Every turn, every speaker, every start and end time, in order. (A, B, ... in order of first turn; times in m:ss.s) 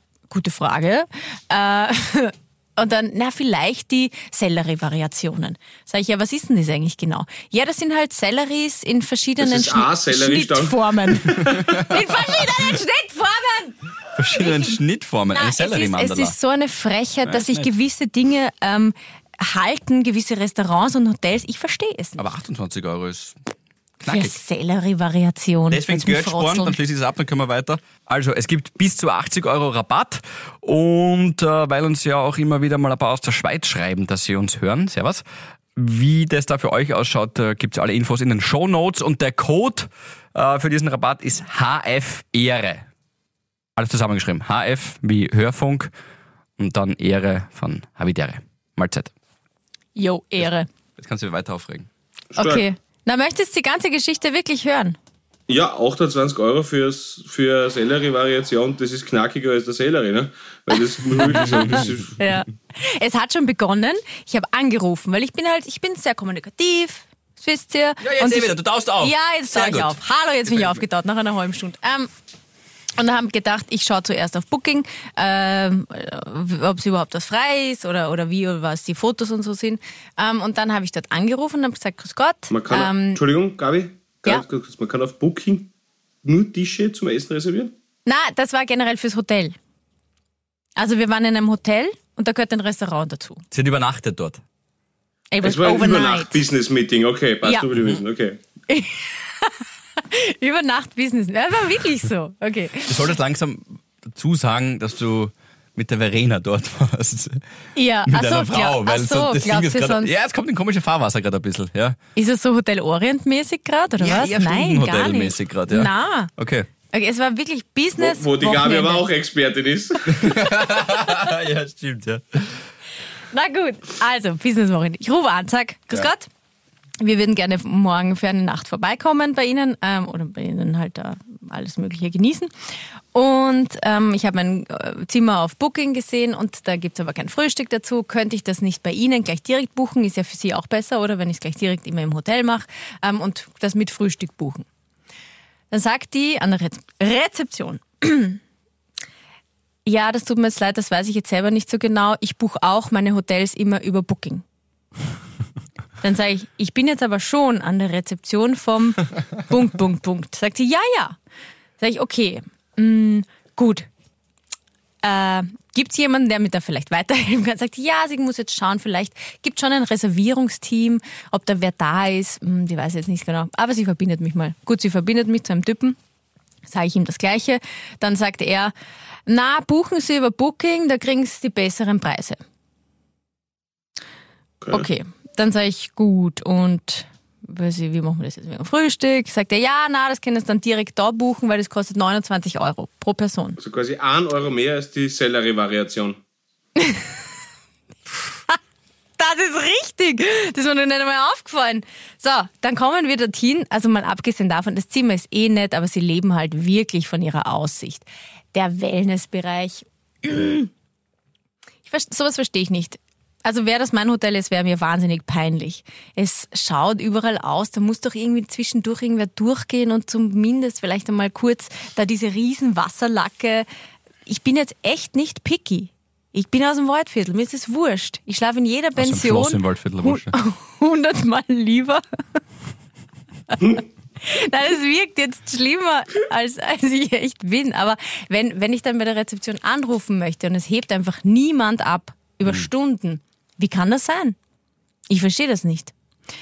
0:00.3-0:13.8 A
0:09.4-0:11.6 B
0:11.5-0:12.0 C
0:14.1-0:16.3 C
0:14.3-0:14.8 A
0:15.3-0:22.2 A
0:17.2-0:17.7 C
0:22.2-0:23.4 C
0:24.0-0:24.4 C
0:24.0-0:26.8 A
0:25.7-0:35.2 C
0:35.8-0:42.9 C
0:43.8-0:45.9 C
0:46.6-0:49.1 C
0:49.9-0:50.7 A
0:50.4-0:51.9 C
0:52.3-0:52.6 B
0:52.4-0:55.0 A
0:55.5-1:02.2 B
1:01.2-1:12.1 A
1:08.0-1:10.0 C
1:13.0-1:23.2 A
1:22.5-1:25.7 B
1:26.2-1:27.7 B
1:28.0-1:29.6 A
1:30.8-1:33.4 A
1:33.5-1:34.4 C
1:35.3-1:36.4 A
1:35.4-1:38.4 B
1:37.7-1:38.0 C
1:38.7-1:43.0 A
1:42.9-1:47.4 C
1:47.7-1:50.1 A
1:48.1-1:52.0 C
1:52.2-1:56.3 A
1:54.0-1:56.7 C
1:56.9-1:59.0 A
1:58.0-2:00.3 B
2:00.1-2:02.6 C
2:03.3-2:06.3 A
2:07.0-2:12.5 A
2:13.1-2:24.6 A
2:25.7-2:28.4 A
2:29.8-2:34.4 A
2:36.0-2:41.2 A
2:41.8-2:43.9 A
2:45.0-2:56.0 A
2:56.6-2:58.7 A
2:59.3-3:02.4 A
3:04.6-3:04.9 B
3:04.7-3:13.6 A
3:13.6-3:16.2 B
3:16.8-3:17.1 A
3:19.2-3:30.7 A
3:31.8-3:43.6 A
3:44.2-3:52.4 A
3:49.0-3:50.3 C
3:53.5-4:04.4 A
4:05.1-4:05.9 A